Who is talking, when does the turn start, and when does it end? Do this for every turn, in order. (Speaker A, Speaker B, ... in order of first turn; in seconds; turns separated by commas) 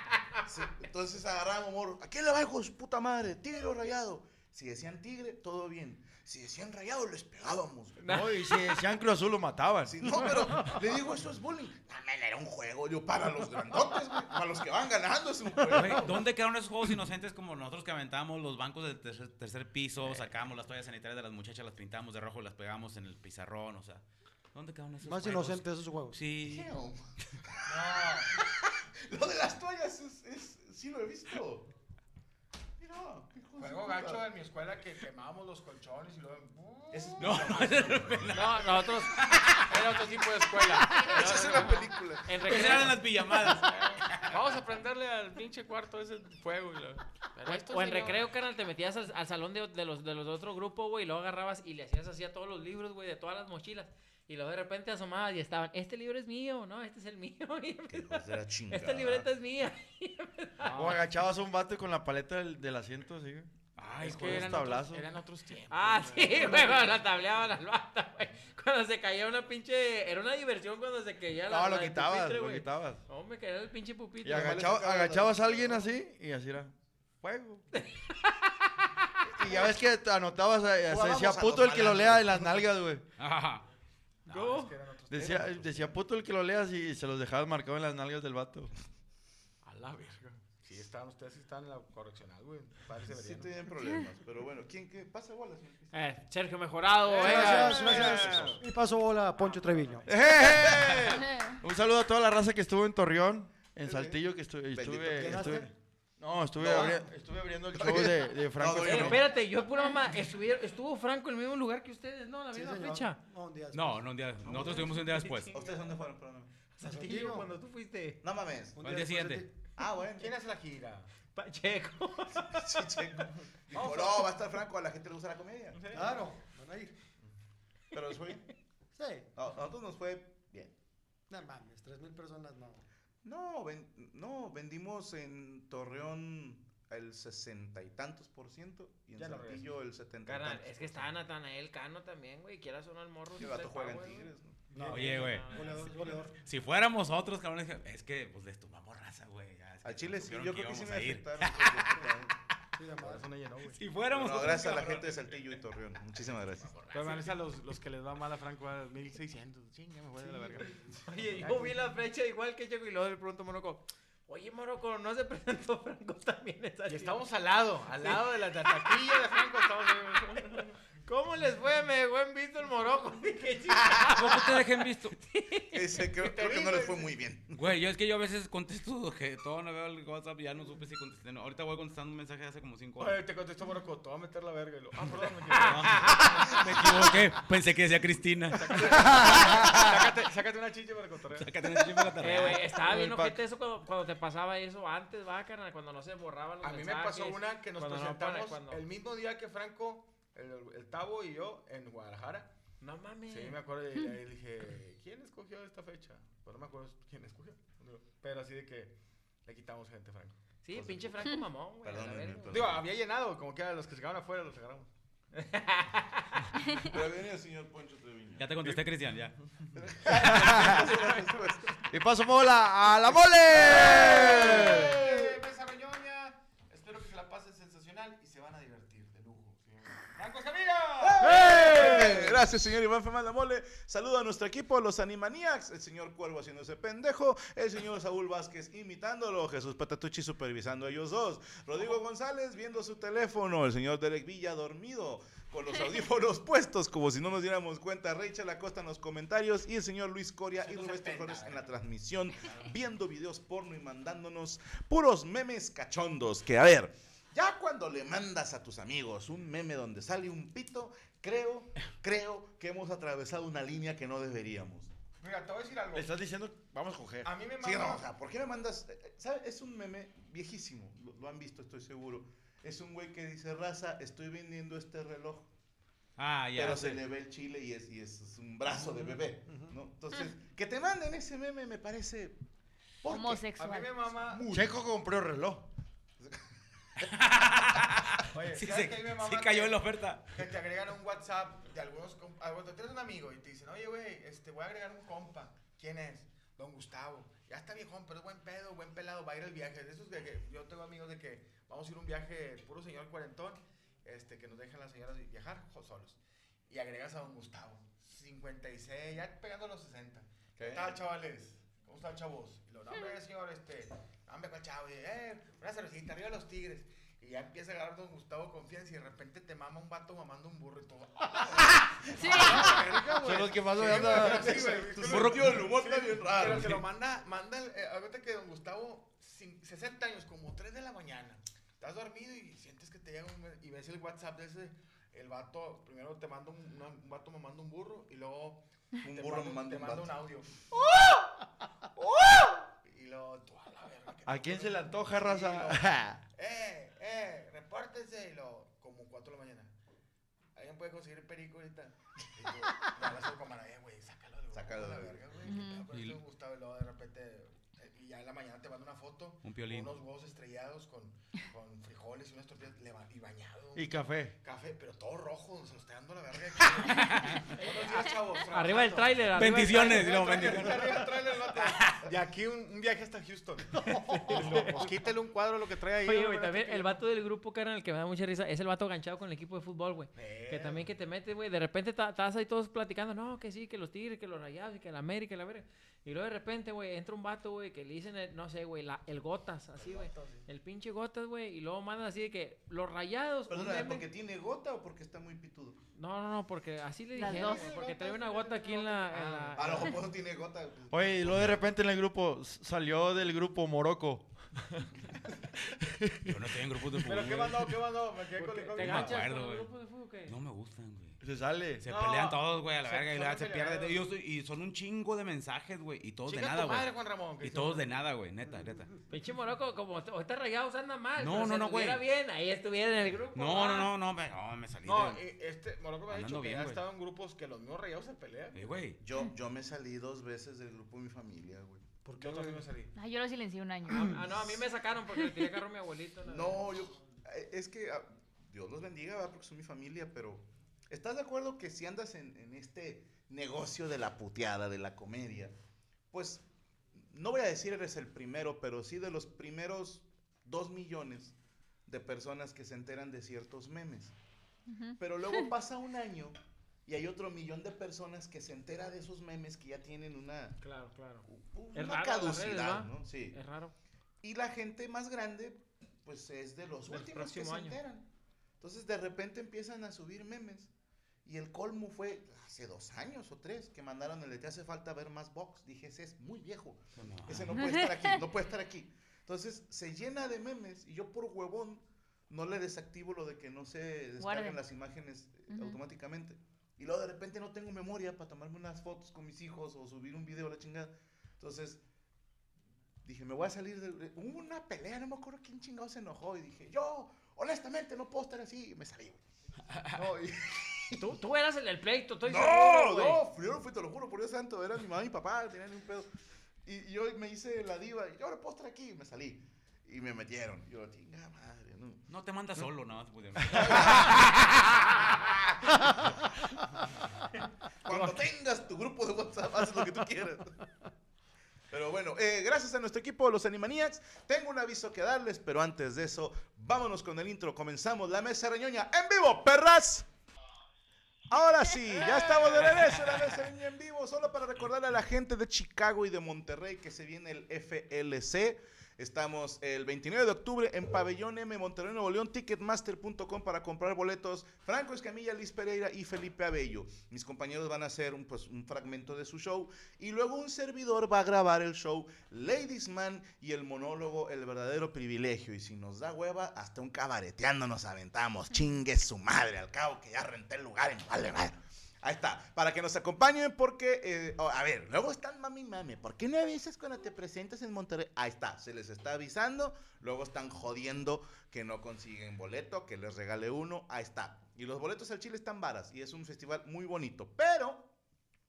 Speaker A: 0.4-8.0, Speaker B: 8.0-8.5, Speaker C: 8.1-10.2, Speaker A: 9.8-16.2, Speaker D: 15.7-26.7, Speaker E: 25.0-26.2, Speaker A: 26.4-31.7, Speaker F: 27.6-28.3, Speaker A: 32.8-34.3, Speaker F: 33.6-37.4, Speaker A: 36.9-38.5, Speaker D: 37.2-39.9, Speaker B: 38.3-40.2, Speaker F: 39.7-41.6, Speaker B: 40.9-43.0, Speaker A: 40.9-42.8, Speaker D: 42.4-44.4, Speaker F: 43.4-48.3, Speaker B: 47.5-61.0, Speaker A: 57.9-59.3, Speaker C: 60.6-63.5, Speaker D: 63.8-64.7, Speaker F: 63.9-67.0, Speaker C: 64.0-65.1, Speaker B: 65.7-74.5, Speaker C: 71.5-73.0, Speaker C: 74.2-77.7, Speaker A: 74.2-75.9, Speaker B: 77.7-78.5, Speaker C: 79.3-83.0, Speaker A: 80.8-82.6, Speaker D: 83.2-83.6, Speaker F: 84.3-86.0, Speaker B: 84.3-84.7, Speaker C: 85.1-88.7, Speaker F: 89.6-93.5, Speaker A: 93.1-95.9, Speaker B: 95.9-98.0, Speaker F: 97.0-98.6, Speaker E: 97.2-100.1, Speaker A: 97.5-98.5, Speaker C: 97.9-98.5, Speaker C: 100.0-109.2, Speaker A: 100.3-101.2, Speaker A: 103.8-104.2, Speaker A: 104.7-105.6, Speaker E: 105.1-105.7, Speaker A: 106.6-106.9, Speaker A: 107.7-109.3, Speaker B: 108.8-113.2, Speaker E: 112.5-114.0, Speaker D: 113.7-115.5, Speaker A: 114.5-114.8, Speaker B: 114.8-115.5, Speaker A: 115.5-116.5, Speaker B: 116.8-118.2, Speaker E: 116.8-117.5, Speaker A: 118.2-118.8, Speaker E: 118.8-119.5, Speaker D: 118.8-119.4, Speaker A: 119.7-120.3, Speaker F: 120.1-121.1, Speaker B: 121.3-122.7, Speaker A: 122.3-125.8, Speaker F: 123.7-124.2, Speaker F: 125.7-126.2, Speaker E: 125.9-126.9, Speaker A: 127.9-128.5, Speaker E: 128.9-129.3, Speaker A: 129.3-130.7, Speaker E: 131.3-132.8, Speaker A: 133.2-141.1, Speaker F: 139.2-139.7, Speaker B: 140.2-144.3, Speaker A: 143.4-144.7, Speaker E: 144.7-146.3, Speaker D: 144.8-145.6, Speaker B: 144.8-146.1, Speaker D: 146.4-152.0, Speaker A: 149.8-152.3, Speaker E: 152.8-153.3, Speaker F: 153.0-153.8, Speaker D: 153.7-155.5, Speaker A: 154.1-156.8, Speaker D: 156.7-157.3, Speaker F: 156.9-161.8, Speaker B: 161.0-167.2, Speaker F: 166.9-170.8, Speaker B: 168.0-169.7, Speaker B: 171.0-176.1, Speaker D: 174.0-175.2, Speaker A: 175.7-177.6, Speaker F: 176.2-177.1, Speaker D: 177.5-183.2, Speaker F: 183.0-186.6, Speaker D: 185.6-189.9, Speaker F: 188.5-191.5, Speaker D: 191.3-192.7, Speaker B: 192.2-198.8, Speaker C: 192.7-193.4, Speaker F: 196.6-202.5, Speaker B: 202.8-203.6, Speaker F: 203.3-210.4, Speaker B: 210.6-212.6, Speaker A: 210.7-212.9, Speaker F: 212.5-214.9, Speaker B: 215.4-216.3, Speaker A: 216.7-218.8, Speaker D: 218.4-219.4, Speaker A: 219.7-221.8, Speaker C: 220.1-220.9, Speaker C: 221.9-224.9, Speaker A: 223.5-225.3, Speaker F: 223.7-232.3, Speaker A: 231.0-264.9, Speaker C: 231.4-232.2, Speaker F: 250.6-251.7, Speaker F: 265.2-266.1, Speaker C: 265.9-267.3, Speaker F: 267.2-268.0, Speaker A: 267.6-275.5, Speaker D: 276.2-277.0, Speaker A: 276.5-282.4, Speaker E: 279.5-279.7, Speaker A: 283.0-283.5, Speaker G: 283.1-284.1, Speaker F: 283.5-284.5, Speaker A: 284.2-284.7, Speaker C: 284.5-285.7, Speaker A: 286.2-287.1, Speaker D: 287.0-290.4, Speaker F: 288.3-340.5, Speaker A: 310.6-310.9, Speaker G: 322.1-322.8, Speaker C: 323.2-324.8, Speaker A: 324.2-326.8, Speaker D: 325.1-325.3, Speaker A: 339.0-340.2, Speaker F: 342.8-349.7, Speaker C: 344.2-346.2, Speaker F: 350.5-377.0, Speaker A: 354.5-355.2, Speaker G: 355.4-355.9, Speaker D: 355.9-356.2, Speaker D: 359.4-359.9, Speaker C: 363.7-364.4, Speaker D: 366.9-367.4, Speaker B: 368.5-370.1, Speaker D: 369.3-372.1, Speaker E: 373.8-374.8, Speaker B: 374.1-374.8, Speaker B: 376.0-394.1, Speaker F: 380.1-380.9, Speaker F: 389.7-390.5, Speaker A: 393.5-395.8, Speaker B: 395.9-400.0, Speaker G: 397.1-397.7, Speaker F: 397.2-400.0, Speaker A: 399.6-401.6, Speaker C: 400.9-404.3, Speaker C: 405.9-406.4, Speaker D: 406.2-407.8, Speaker F: 407.0-409.2, Speaker B: 408.4-410.3, Speaker D: 408.8-409.7, Speaker D: 410.2-411.2, Speaker C: 411.2-411.8, Speaker D: 411.8-418.9, Speaker F: 411.9-414.1, Speaker F: 416.2-417.9, Speaker B: 419.1-423.9, Speaker D: 421.2-422.0, Speaker D: 423.3-425.2, Speaker F: 424.8-428.6, Speaker D: 426.1-426.8, Speaker D: 428.5-429.0, Speaker A: 429.0-432.0, Speaker E: 432.0-432.7, Speaker F: 432.1-432.9, Speaker G: 432.9-434.3, Speaker B: 433.9-436.7, Speaker A: 436.2-445.5, Speaker A: 446.1-446.4, Speaker A: 446.9-451.3, Speaker A: 451.9-454.1, Speaker G: 454.7-455.4, Speaker A: 455.0-460.6, Speaker B: 460.6-463.7, Speaker A: 461.3-463.4, Speaker A: 464.2-468.1, Speaker B: 466.9-467.8, Speaker A: 468.6-470.7, Speaker A: 471.2-491.8, Speaker D: 477.0-477.6, Speaker G: 477.6-478.2, Speaker G: 484.2-484.6, Speaker G: 485.5-485.8, Speaker A: 493.0-499.2, Speaker A: 500.0-501.0, Speaker B: 500.9-503.2, Speaker A: 502.2-506.1, Speaker A: 506.6-512.0, Speaker D: 512.1-514.6, Speaker A: 513.5-515.5, Speaker A: 517.8-520.6, Speaker A: 521.7-530.0, Speaker A: 531.3-577.9